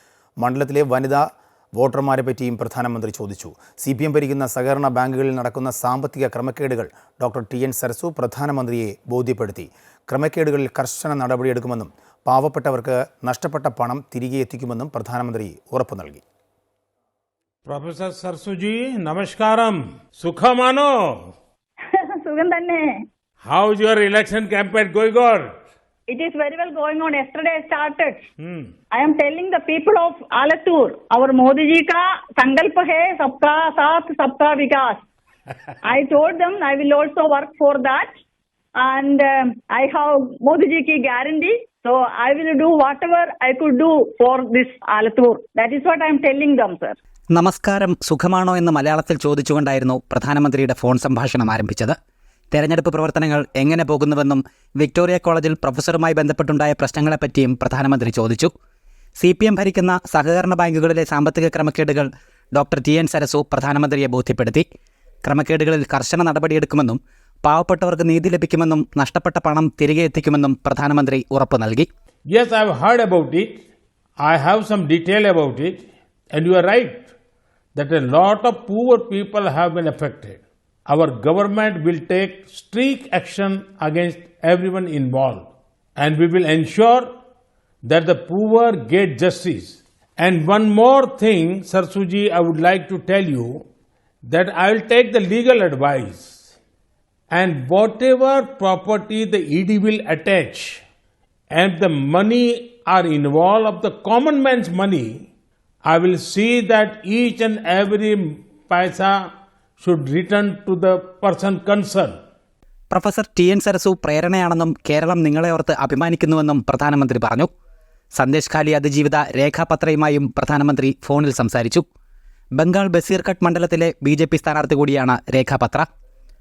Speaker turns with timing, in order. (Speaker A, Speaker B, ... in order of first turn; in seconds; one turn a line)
Speaker A: 0.4-16.2
Speaker B: 17.7-21.3
Speaker C: 21.9-22.9
Speaker B: 23.4-25.5
Speaker C: 26.1-28.2
Speaker B: 28.4-28.7
Speaker C: 28.9-35.0
Speaker C: 35.8-38.1
Speaker C: 38.8-47.0
Speaker D: 47.3-52.0
Speaker D: 52.5-58.5
Speaker D: 59.2-64.7
Speaker D: 65.2-71.9
Speaker B: 72.3-73.6
Speaker B: 74.2-77.1
Speaker B: 77.8-87.1
Speaker B: 87.8-93.6
Speaker B: 94.2-96.4
Speaker B: 97.3-100.8
Speaker B: 101.5-105.3
Speaker B: 105.8-109.2
Speaker B: 109.8-112.2
Speaker D: 112.9-117.5
Speaker D: 118.2-121.8
Speaker D: 122.6-125.9